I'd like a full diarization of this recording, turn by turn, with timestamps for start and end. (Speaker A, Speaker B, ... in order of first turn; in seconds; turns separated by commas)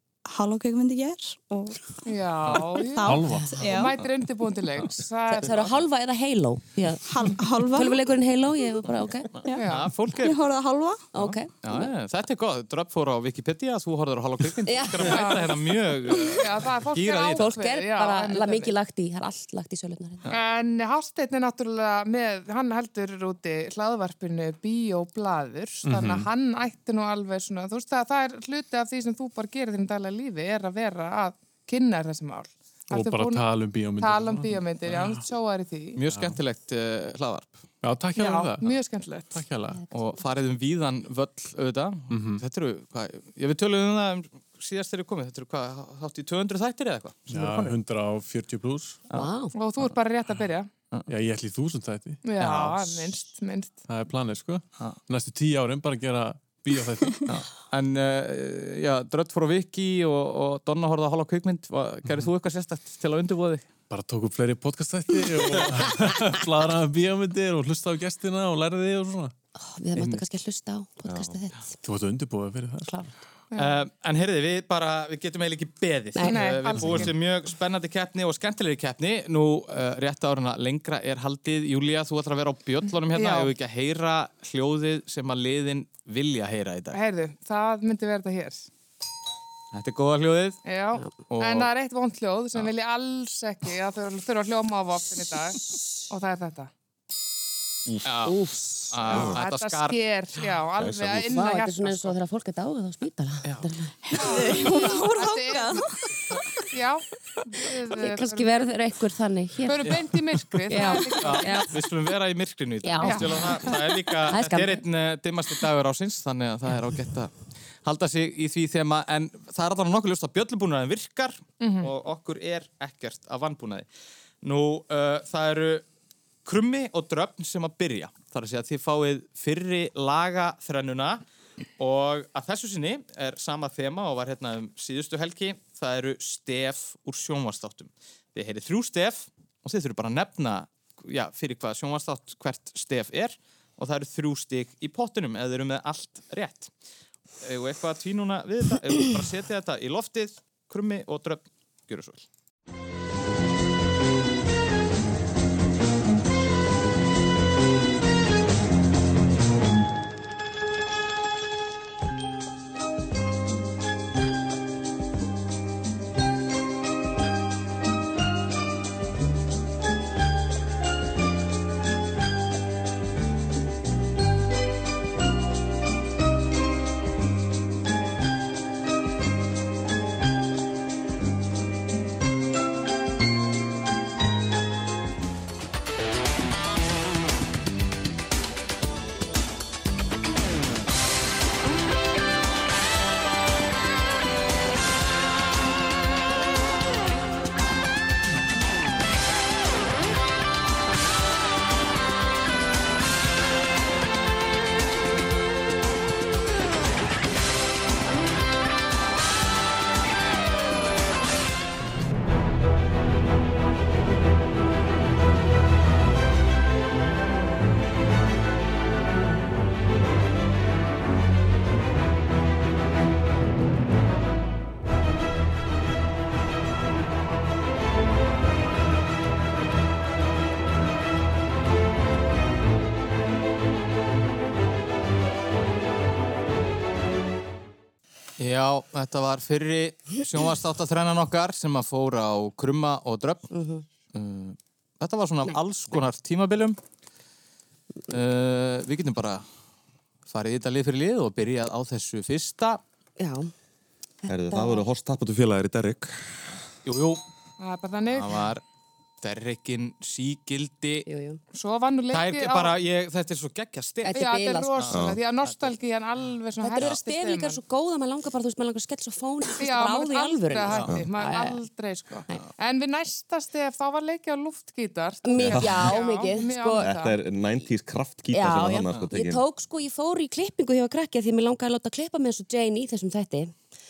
Speaker A: 0.2-2.0, Speaker B: 2.0-5.5, Speaker A: 2.8-4.0, Speaker C: 3.0-3.5, Speaker D: 3.3-3.8, Speaker D: 5.3-9.5, Speaker A: 7.1-8.0, Speaker B: 9.5-9.9, Speaker E: 9.6-10.3, Speaker A: 10.2-11.1, Speaker D: 11.1-11.9, Speaker E: 11.2-17.5, Speaker D: 14.6-15.4, Speaker B: 15.1-15.5, Speaker B: 16.1-18.7, Speaker D: 17.4-20.2, Speaker B: 20.3-36.0, Speaker C: 25.8-26.3, Speaker C: 32.9-35.2, Speaker E: 36.0-37.6, Speaker C: 36.1-36.4, Speaker C: 37.8-38.6, Speaker B: 38.1-39.4, Speaker C: 39.3-39.8, Speaker E: 39.9-47.8, Speaker C: 42.1-42.4, Speaker C: 47.3-49.1, Speaker D: 49.1-49.5, Speaker B: 49.5-50.7, Speaker C: 51.1-52.2, Speaker B: 52.2-53.8, Speaker E: 52.4-53.0, Speaker C: 53.9-57.3, Speaker E: 57.2-63.6, Speaker C: 63.9-69.3, Speaker D: 69.6-71.7, Speaker F: 71.0-71.4, Speaker C: 71.8-73.0, Speaker B: 73.5-73.8, Speaker E: 73.5-87.0, Speaker D: 76.1-76.8, Speaker B: 76.2-77.1, Speaker B: 83.1-83.5, Speaker B: 86.9-88.7, Speaker E: 89.7-90.6, Speaker B: 90.6-96.7, Speaker E: 91.3-91.7, Speaker D: 95.6-96.0, Speaker E: 98.0-98.4, Speaker D: 98.2-99.2, Speaker E: 98.9-100.0, Speaker F: 99.1-99.4, Speaker B: 99.1-102.1, Speaker F: 100.8-101.3, Speaker D: 101.2-104.9, Speaker A: 104.1-106.6, Speaker B: 104.1-105.8, Speaker B: 106.7-108.5, Speaker D: 108.0-110.0, Speaker B: 109.6-111.7, Speaker D: 110.7-111.7, Speaker E: 111.2-117.3, Speaker D: 112.8-114.8, Speaker B: 113.0-113.5, Speaker E: 117.8-123.9, Speaker B: 121.6-121.9, Speaker E: 124.4-125.8, Speaker E: 126.4-131.2, Speaker E: 131.8-146.7, Speaker E: 147.4-152.2, Speaker E: 238.4-243.5, Speaker D: 243.5-243.8, Speaker E: 244.1-246.8, Speaker E: 248.1-249.4, Speaker E: 250.3-252.8, Speaker D: 253.2-253.5, Speaker D: 254.2-254.9, Speaker F: 254.3-256.5, Speaker E: 256.8-257.2, Speaker B: 257.6-258.4, Speaker E: 258.1-258.6, Speaker E: 259.2-261.1, Speaker D: 261.1-261.4, Speaker B: 261.5-262.8, Speaker E: 262.1-264.2, Speaker D: 264.1-264.8, Speaker B: 264.1-267.6, Speaker E: 264.8-265.6, Speaker F: 264.9-265.2, Speaker D: 266.6-271.6, Speaker B: 269.6-277.1, Speaker D: 275.2-276.9, Speaker F: 275.4-276.0, Speaker F: 276.8-279.4, Speaker D: 278.3-283.6